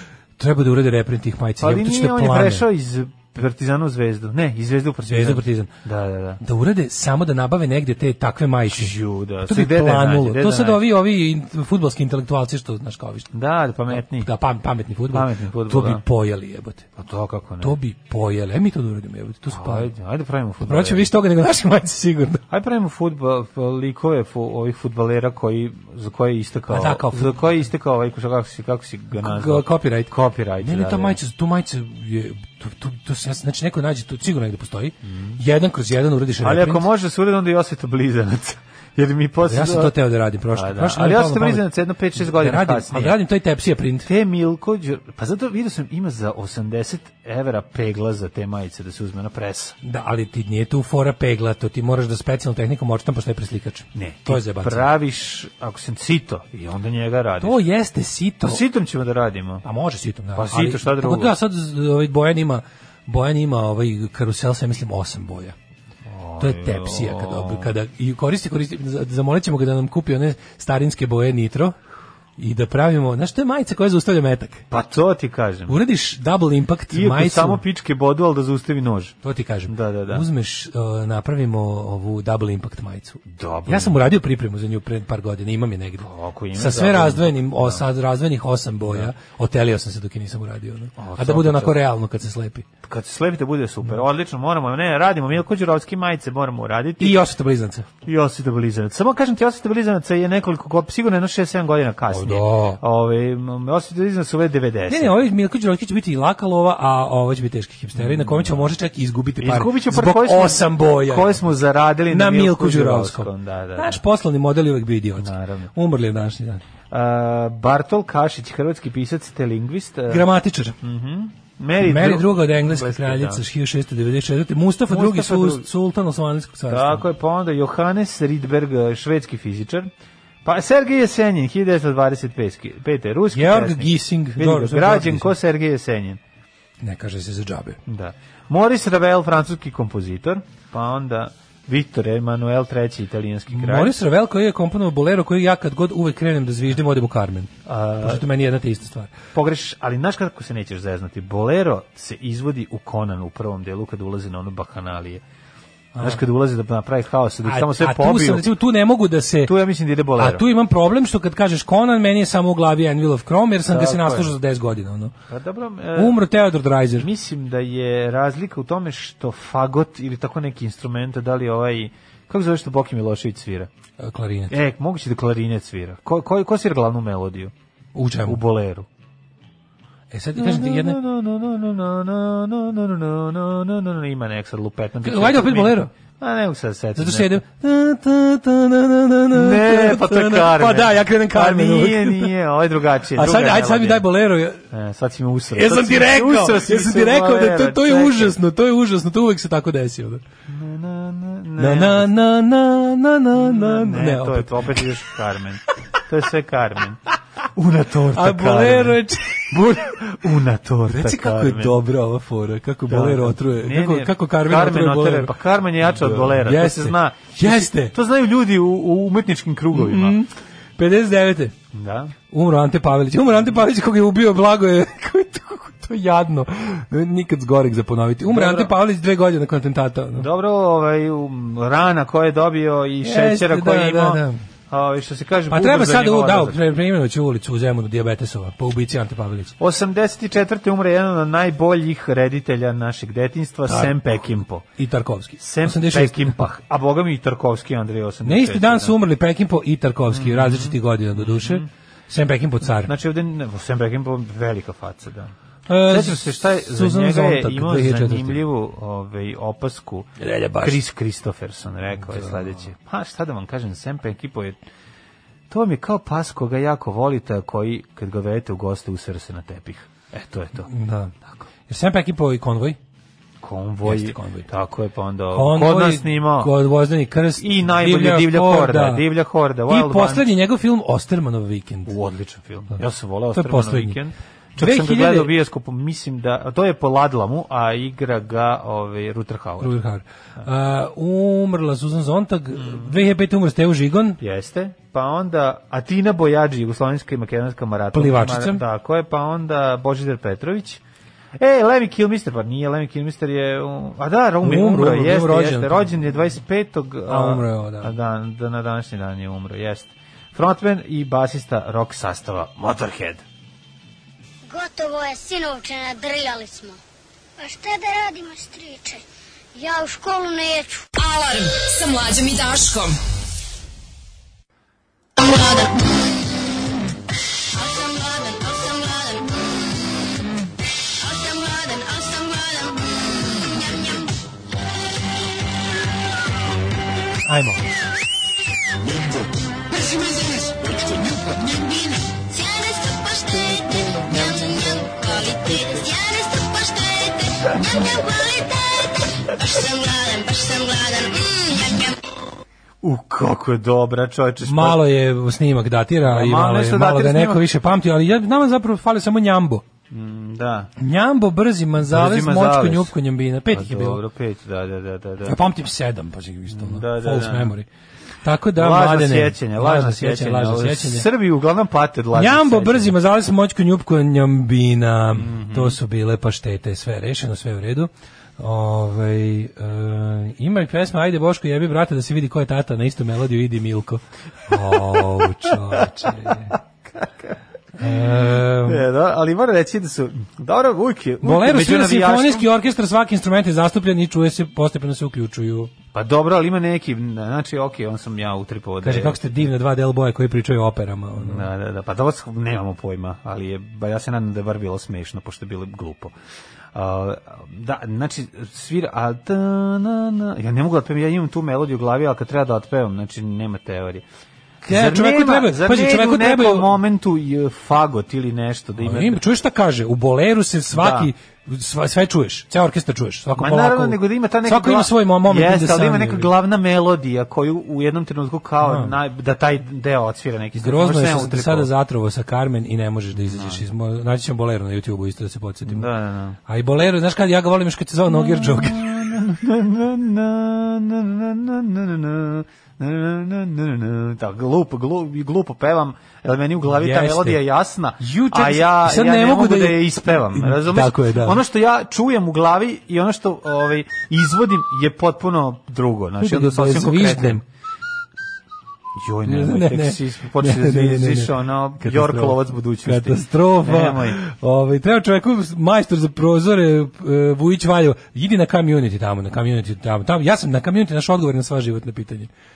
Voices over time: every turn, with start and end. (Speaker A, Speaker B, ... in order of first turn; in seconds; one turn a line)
Speaker A: 0.4-2.6
Speaker B: 1.6-6.4
Speaker A: 5.0-5.7
Speaker A: 6.4-13.3
Speaker B: 8.7-10.8
Speaker B: 13.3-14.3
Speaker A: 13.9-16.9
Speaker B: 15.1-16.0
Speaker B: 16.9-17.8
Speaker A: 17.6-19.9
Speaker B: 19.5-21.1
Speaker A: 20.6-22.4
Speaker B: 22.5-31.2
Speaker A: 26.7-27.5
Speaker A: 29.1-36.9
Speaker B: 35.0-35.4
Speaker B: 36.4-39.9
Speaker A: 39.5-44.1
Speaker B: 40.5-43.2
Speaker B: 44.0-49.7
Speaker A: 49.8-54.9
Speaker B: 53.9-57.6
Speaker A: 57.4-58.6
Speaker B: 58.4-59.6
Speaker A: 59.6-65.5
Speaker B: 60.3-61.3
Speaker B: 66.0-67.7
Speaker A: 66.4-71.8
Speaker A: 72.4-74.7
Speaker B: 74.7-75.7
Speaker A: 75.7-77.6
Speaker B: 76.9-79.1
Speaker A: 79.2-92.7
Speaker B: 79.7-80.2
Speaker B: 83.2-84.0
Speaker B: 86.0-87.8
Speaker B: 91.0-91.8
Speaker B: 92.8-97.2
Speaker A: 97.0-97.9
Speaker B: 98.0-105.1
Speaker A: 102.1-102.8
Speaker A: 104.9-111.4
Speaker B: 108.0-108.7
Speaker B: 109.4-114.0
Speaker A: 112.1-116.6
Speaker B: 115.2-115.7
Speaker B: 116.9-120.2
Speaker A: 120.1-120.8
Speaker B: 120.8-123.4
Speaker A: 121.8-127.0
Speaker B: 124.9-125.7
Speaker B: 126.7-129.9
Speaker B: 130.4-136.2
Speaker A: 133.3-135.3
Speaker A: 136.8-137.8
Speaker B: 137.9-144.0
Speaker A: 143.5-149.1
Speaker B: 147.7-148.2
Speaker B: 149.3-155.2
Speaker A: 155.9-156.2
Speaker B: 156.0-158.5
Speaker A: 157.4-159.6
Speaker B: 159.4-160.4
Speaker A: 160.1-165.1
Speaker B: 163.7-164.3
Speaker B: 165.3-166.2
Speaker A: 165.9-167.1
Speaker B: 167.0-173.7
Speaker A: 174.0-174.6
Speaker B: 174.5-177.5
Speaker A: 177.9-178.4
Speaker B: 178.2-178.9
Speaker A: 180.1-181.0
Speaker B: 180.4-187.4
Speaker A: 185.0-185.9
Speaker A: 186.9-192.3
Speaker B: 189.3-194.1
Speaker A: 193.1-194.6
Speaker B: 194.7-198.4
Speaker A: 195.5-200.2
Speaker B: 200.5-202.1
Speaker A: 201.6-205.1
Speaker B: 203.3-207.0
Speaker B: 207.6-211.8
Speaker A: 208.1-209.8
Speaker A: 210.9-217.9
Speaker B: 212.9-220.2
Speaker A: 219.7-221.5
Speaker B: 221.7-222.1
Speaker A: 222.3-230.3
Speaker B: 228.3-228.7
Speaker B: 230.2-236.6
Speaker A: 233.0-234.4
Speaker A: 235.5-239.6
Speaker B: 239.6-244.6
Speaker A: 243.7-246.5
Speaker B: 245.4-248.9
Speaker A: 248.2-252.9
Speaker B: 250.1-251.7
Speaker B: 252.9-255.3
Speaker A: 255.7-258.4
Speaker B: 255.8-264.6
Speaker A: 260.2-260.8
Speaker A: 262.0-262.6
Speaker B: 265.5-270.7
Speaker A: 270.6-271.1
Speaker A: 271.7-272.8
Speaker B: 273.4-276.5
Speaker A: 273.8-274.5
Speaker A: 275.3-279.1
Speaker B: 277.4-280.3
Speaker A: 279.7-281.9
Speaker B: 281.9-289.7
Speaker A: 283.3-284.0
Speaker A: 284.6-285.3
Speaker A: 289.6-294.2
Speaker B: 292.6-292.9
Speaker B: 294.2-300.8
Speaker A: 297.9-298.6
Speaker B: 301.4-313.2
Speaker A: 304.4-306.0
Speaker A: 307.1-307.9
Speaker C: 314.5-316.8
Speaker C: 317.4-319.0
Speaker C: 319.5-320.9
Speaker D: 320.9-323.0
Speaker C: 325.2-325.9
Speaker C: 327.5-329.3
Speaker C: 331.0-334.1
Speaker A: 337.2-337.7
Speaker C: 339.7-351.9
Speaker B: 352.8-354.8
Speaker A: 354.4-359.6
Speaker B: 356.0-357.4
Speaker B: 359.9-360.7
Speaker A: 360.8-364.0
Speaker B: 361.8-362.9
Speaker B: 363.5-365.4
Speaker A: 365.2-367.7
Speaker B: 366.5-367.5
Speaker A: 368.2-371.1
Speaker B: 368.6-372.9
Speaker A: 372.1-386.6
Speaker B: 375.1-375.8
Speaker B: 384.7-392.5
Speaker A: 387.8-388.9
Speaker A: 391.2-395.7
Speaker B: 395.9-399.2
Speaker A: 398.8-401.4
Speaker B: 401.2-406.1
Speaker B: 406.7-414.0
Speaker A: 414.6-416.8
Speaker B: 414.7-419.2
Speaker A: 418.8-426.3
Speaker B: 420.7-421.1
Speaker B: 423.4-431.7
Speaker A: 428.6-428.9
Speaker A: 430.6-435.9
Speaker B: 433.1-433.6
Speaker B: 435.7-436.4
Speaker A: 436.5-439.2
Speaker B: 438.1-457.4
Speaker A: 446.6-447.4
Speaker A: 448.0-451.4
Speaker A: 456.2-457.4
Speaker B: 459.0-464.2
Speaker A: 459.2-472.3